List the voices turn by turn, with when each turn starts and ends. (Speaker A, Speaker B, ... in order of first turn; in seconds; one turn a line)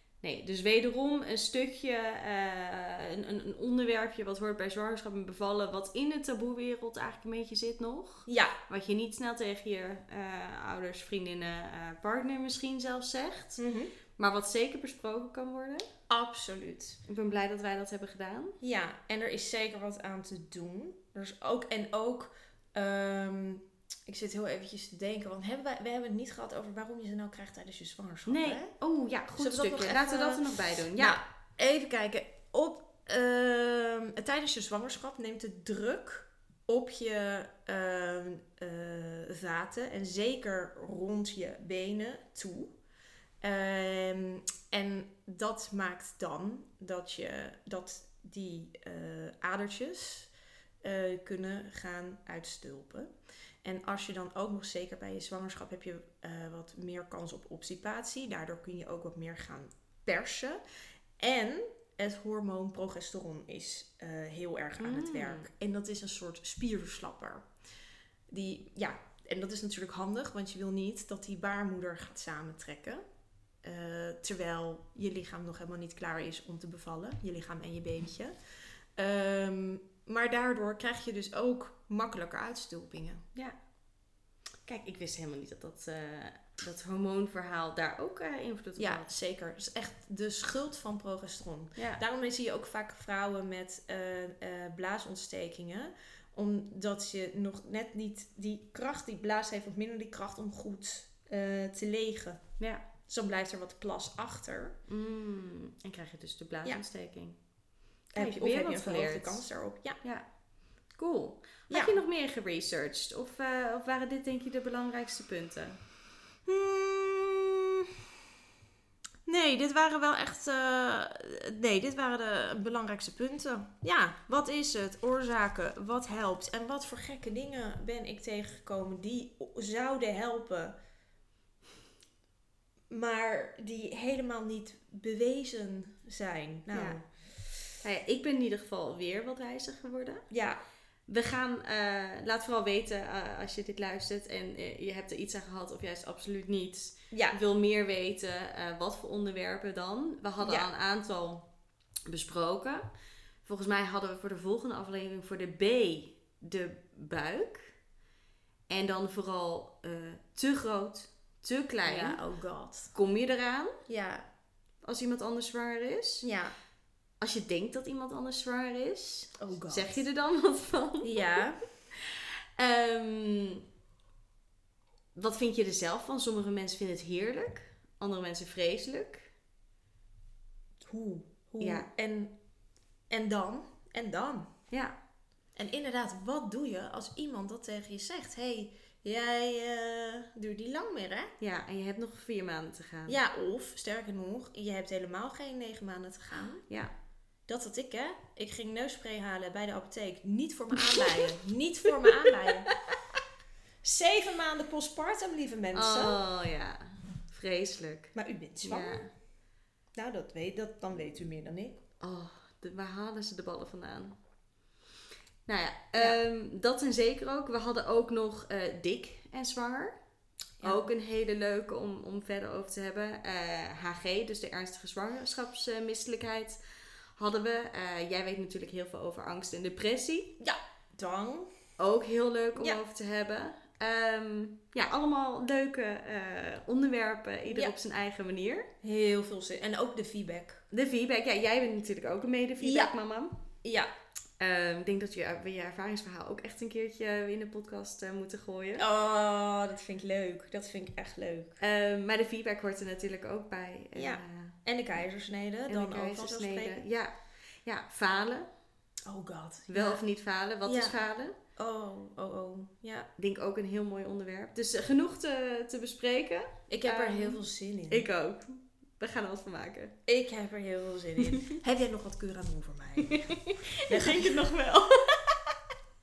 Speaker A: 0.2-13.6
Speaker B: 8.3-8.6
Speaker B: 13.6-13.9
Speaker A: 14.2-15.9
Speaker B: 16.1-17.0
Speaker A: 17.1-18.6
Speaker B: 18.6-28.7
Speaker A: 28.3-31.2
Speaker B: 29.4-42.7
Speaker B: 43.4-50.3
Speaker B: 50.8-53.1
Speaker B: 53.6-60.6
Speaker B: 61.2-67.5
Speaker A: 64.8-65.5
Speaker B: 68.3-73.0
Speaker B: 73.6-78.3
Speaker B: 79.0-83.2
Speaker A: 84.7-89.1
Speaker B: 88.8-102.4
Speaker A: 91.8-92.0
Speaker B: 103.1-104.8
Speaker A: 104.9-107.4
Speaker A: 108.1-109.4
Speaker B: 108.1-110.0
Speaker A: 111.0-115.8
Speaker B: 111.7-112.0
Speaker B: 116.5-118.0
Speaker B: 119.2-130.8
Speaker B: 132.9-137.0
Speaker A: 136.7-137.0
Speaker A: 137.8-140.2
Speaker B: 140.3-140.6
Speaker A: 141.1-151.4
Speaker B: 147.1-147.4
Speaker B: 150.4-150.7
Speaker A: 152.1-152.8
Speaker A: 153.4-157.7
Speaker A: 158.7-162.2
Speaker B: 161.8-162.9
Speaker A: 162.9-163.8
Speaker B: 163.9-164.2
Speaker A: 164.8-166.3
Speaker B: 166.2-166.5
Speaker A: 167.2-171.4
Speaker B: 169.4-170.0
Speaker B: 171.0-171.6
Speaker A: 171.9-173.6
Speaker A: 175.1-179.3
Speaker B: 180.8-182.3
Speaker A: 181.6-181.9
Speaker B: 183.1-184.5
Speaker A: 184.7-184.9
Speaker B: 185.6-191.3
Speaker A: 191.4-193.2
Speaker B: 193.1-196.6
Speaker B: 197.5-202.7
Speaker A: 200.8-201.2
Speaker A: 201.9-203.0
Speaker B: 203.8-206.2
Speaker A: 205.7-209.1
Speaker B: 208.1-209.0
Speaker B: 209.9-211.8
Speaker A: 212.0-214.2
Speaker A: 215.5-220.0
Speaker A: 220.6-226.6
Speaker A: 227.2-230.3
Speaker B: 230.4-231.5
Speaker A: 231.8-238.7
Speaker B: 237.5-237.7
Speaker B: 238.8-240.6
Speaker A: 240.7-243.3
Speaker B: 242.6-242.9
Speaker B: 243.6-243.9
Speaker A: 244.4-248.8
Speaker B: 248.8-251.6
Speaker A: 251.6-254.6
Speaker B: 253.9-256.8
Speaker A: 255.7-257.1
Speaker A: 257.6-258.5
Speaker B: 259.0-260.0
Speaker A: 259.7-261.3
Speaker B: 260.6-261.0
Speaker B: 261.6-263.1
Speaker A: 263.2-269.9
Speaker B: 266.7-268.1
Speaker B: 270.1-274.5
Speaker A: 271.2-271.6
Speaker A: 273.0-275.6